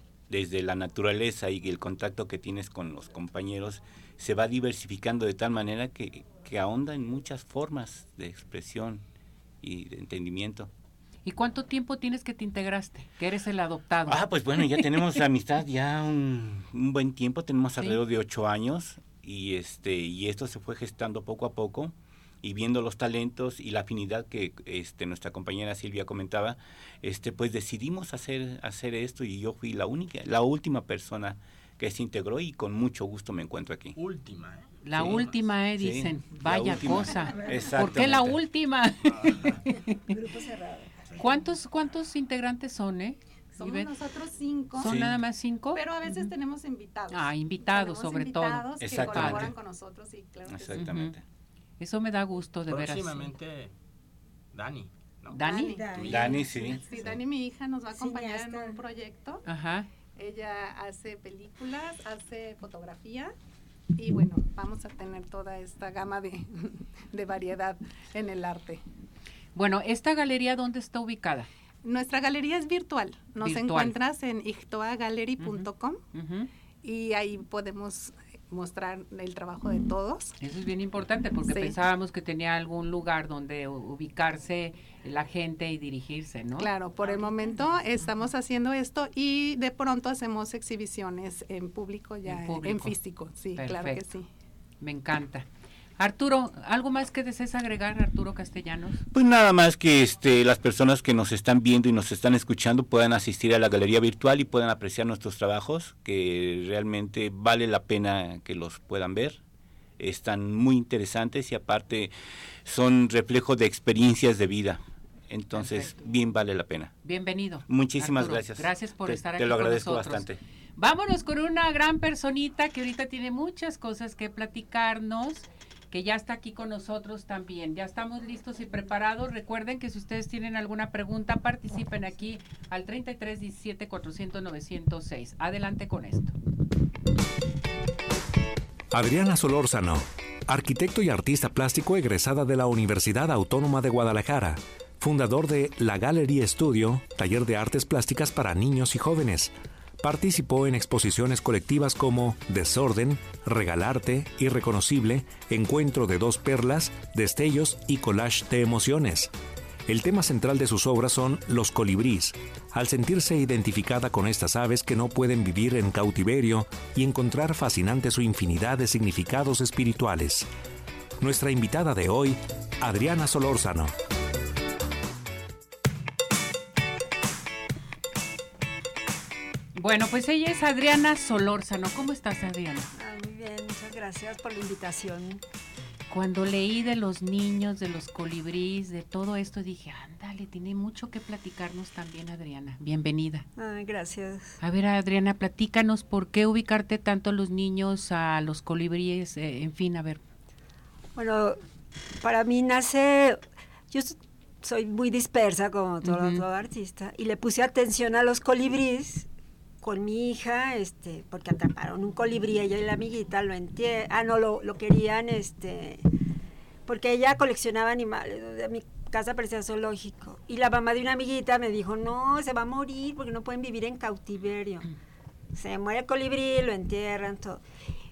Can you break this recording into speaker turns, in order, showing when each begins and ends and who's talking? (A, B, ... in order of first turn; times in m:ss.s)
0:00.3-0:09.0 A
0:09.6-0:10.7 A
0:11.2-0:14.9 B
0:14.1-0:34.0 A
0:34.0-0:35.4 C
0:34.8-0:40.2 B
0:35.0-0:35.2 A
0:35.8-0:38.4 A
0:39.2-0:39.6 C
0:41.2-0:43.9 B
0:43.5-0:45.0 D
0:44.8-0:46.3 B
0:44.8-0:45.2 A
0:45.7-0:51.0 D
0:47.1-0:49.5 B
0:48.8-0:49.6 A
0:50.5-0:51.2 A
0:50.8-0:51.2 B
0:51.8-0:53.3 B
0:52.7-0:53.7 C
0:54.5-0:56.3 C
0:55.3-0:55.8 B
0:55.4-0:59.4 D
0:56.0-0:56.9 A
0:59.5-0:59.9 B
1:00.2-1:03.3 D
1:04.0-1:08.8 D
1:09.6-1:11.5 B
1:11.8-1:16.0 D
1:13.4-1:14.0 B
1:15.4-1:16.5 B
1:16.8-1:20.4 D
1:20.4-1:27.2 B
1:21.4-1:21.8 D
1:26.6-1:34.3 D
1:32.2-1:33.0 B
1:33.5-1:34.0 B
1:34.8-1:35.5 B
1:36.0-1:39.0 B
1:39.1-1:49.4 A
1:50.0-1:52.1 A
1:52.6-1:57.0 A
1:55.5-1:56.0 B
1:57.0-2:16.3 B
1:57.7-2:00.4 A
2:18.9-2:39.3 E
2:39.9-2:50.5 E
2:51.2-2:53.9 E
2:59.8-3:02.9 B
3:03.0-3:05.4 F
3:06.1-3:13.5 B
3:13.6-3:14.6 F
3:14.6-3:20.2 B
3:21.2-3:21.6 F
3:22.2-3:29.3 F
3:26.0-3:26.4 B
3:29.8-3:36.0 F
3:36.9-3:44.9 F
3:45.5-3:47.6 F